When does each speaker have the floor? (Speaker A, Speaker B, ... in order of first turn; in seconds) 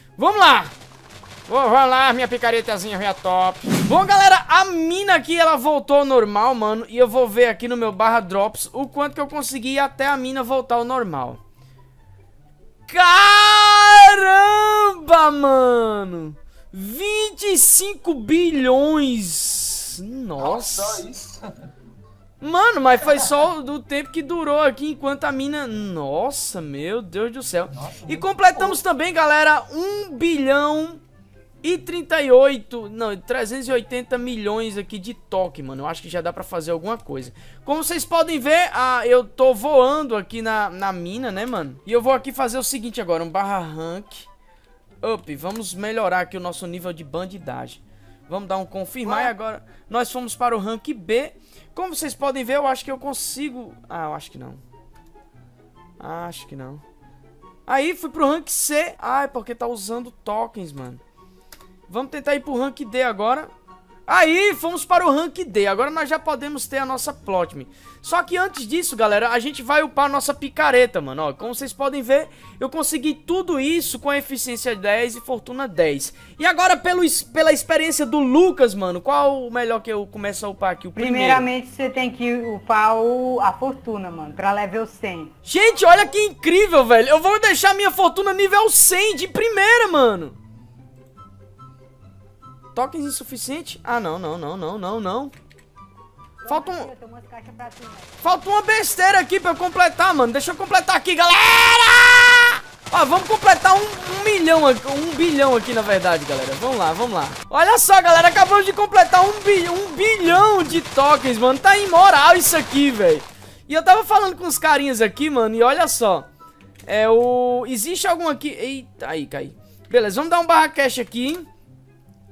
Speaker A: 0.2-0.7, 1.5-11.4, 12.9-21.1, 22.4-31.0, 31.6-44.3, 45.0-54.6, 56.0-56.8, 57.7-61.0, 61.9-63.5, 64.1-81.5, 85.5-90.4, 92.8-95.3, 96.5-96.9, 98.2-116.3, 116.9-121.5
Speaker B: 20.4-21.7, 27.7-28.8, 49.0-49.3
Speaker C: 81.0-85.3, 96.4-98.2